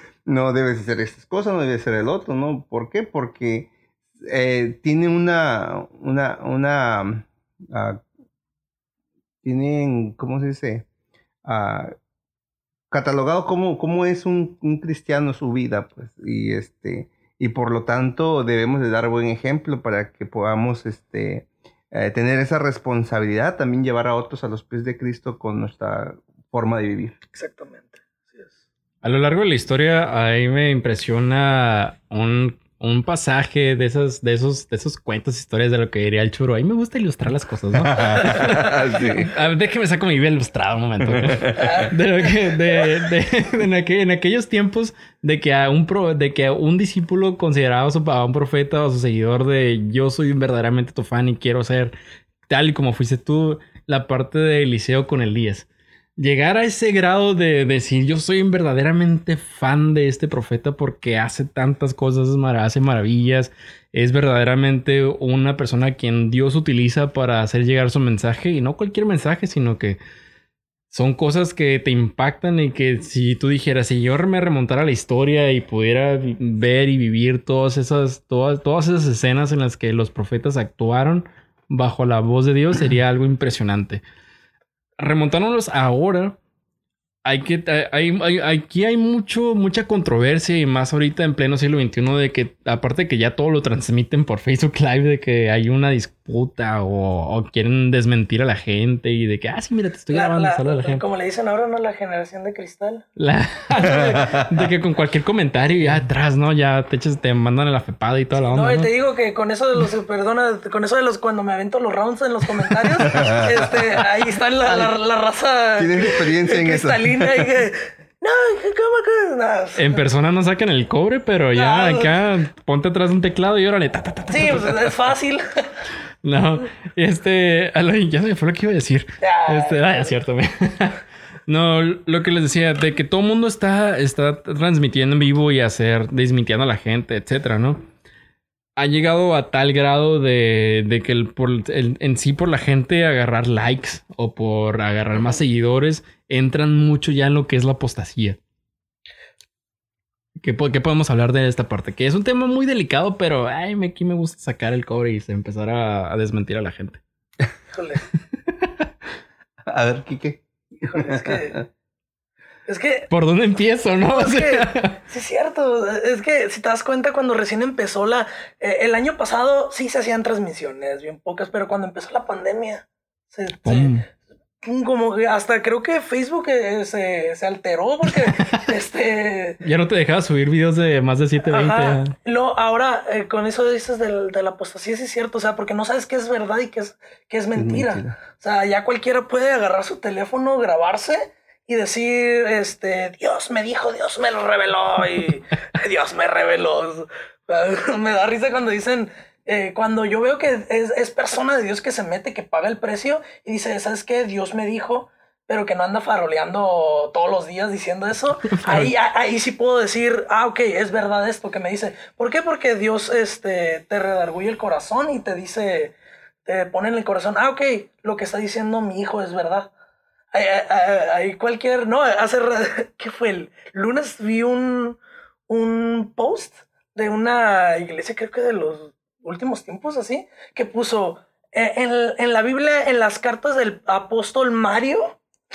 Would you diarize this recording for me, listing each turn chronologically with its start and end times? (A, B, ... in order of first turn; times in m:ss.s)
0:00.2-0:03.7 A
0:04.2-0:08.0 A
0:09.4-0:10.8 A
0:11.4-0:11.9 A
0:12.9-0:27.1 A
0:27.3-0:28.5 B
0:29.0-0:51.9 C
0:37.8-0:39.3 A
0:41.1-0:41.7 A
0:41.6-0:41.9 B
0:52.5-0:55.7 C
0:56.2-1:10.0 C
1:10.9-1:24.0 C
1:25.0-1:26.4 C
1:27.2-1:41.0 C
1:40.1-1:43.0 B
1:43.2-1:48.9 C
1:43.7-1:44.3 B
1:48.5-2:00.0 B
1:53.1-1:53.5 A
1:55.8-1:57.5 A
1:59.8-2:04.8 C
2:01.5-2:02.1 B
2:04.3-2:05.6 B
2:06.2-2:17.8 C
2:09.2-2:10.1 B
2:18.8-2:28.4 C
2:30.4-2:37.0 C
2:37.7-2:38.0 B
2:39.7-2:41.6 A
2:40.8-2:41.6 B
2:42.7-2:43.1 B
2:43.1-2:44.9 C
2:44.1-2:53.9 B
2:53.6-2:54.0 C
2:54.6-2:59.6 B
2:59.6-3:02.1 C
3:01.4-3:35.9 B
3:07.5-3:08.2 A
3:28.5-3:28.9 C
3:36.4-3:39.7 B
3:40.3-3:55.2 B